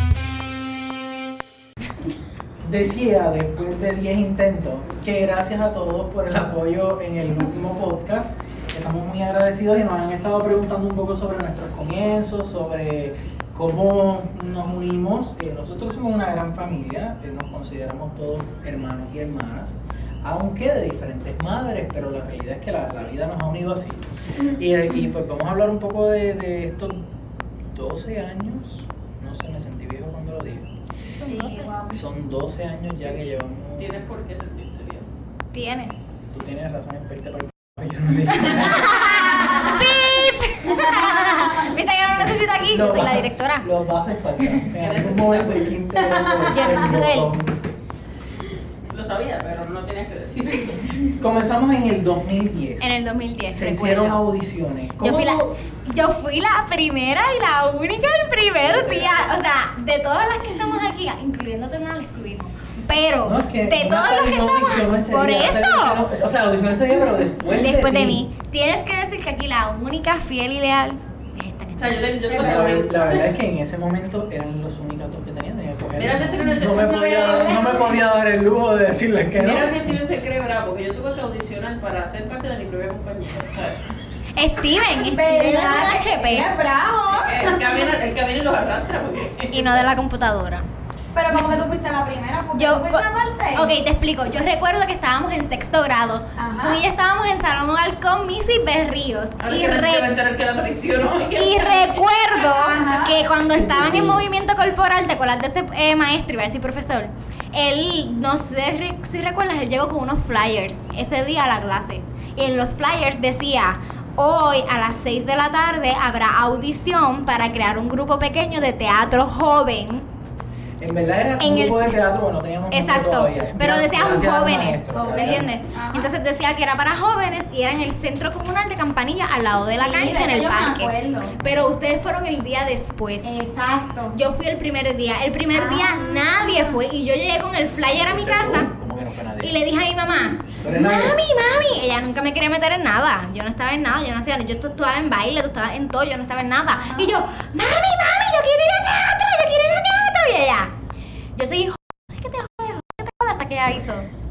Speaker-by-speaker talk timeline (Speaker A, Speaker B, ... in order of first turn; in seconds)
Speaker A: 2.6-27.0, 27.7-30.7, 31.9-34.0, 36.3-39.5, 42.1-47.6, 51.2-53.0, 53.5-55.5, 58.6-59.4, 63.2-68.2, 72.3-80.0, 103.5-104.3, 120.8-125.5, 137.9-139.6, 140.6-141.2
Speaker B: 31.0-31.7, 35.5-36.0, 38.7-43.7, 46.5-47.4, 52.8-54.2, 55.0-66.0, 67.5-72.0, 84.4-86.5, 89.5-90.7, 92.5-100.2, 101.3-120.1, 121.4-122.0, 122.7-133.3, 134.1-138.7, 139.4-150.7, 151.4-154.1
Speaker C: 31.2-32.0, 39.5-39.8, 41.1-41.4, 46.3-46.8, 76.6-78.0, 84.9-87.9, 91.1-93.7, 96.4-96.8, 102.4-103.2, 125.0-126.1, 129.7-131.3, 133.2-134.2, 135.5-136.8, 146.7-147.1
Speaker D: 33.8-35.1, 44.8-45.8, 48.9-51.1, 71.8-73.3, 76.0-77.3, 79.3-83.8, 87.1-89.9, 99.4-102.0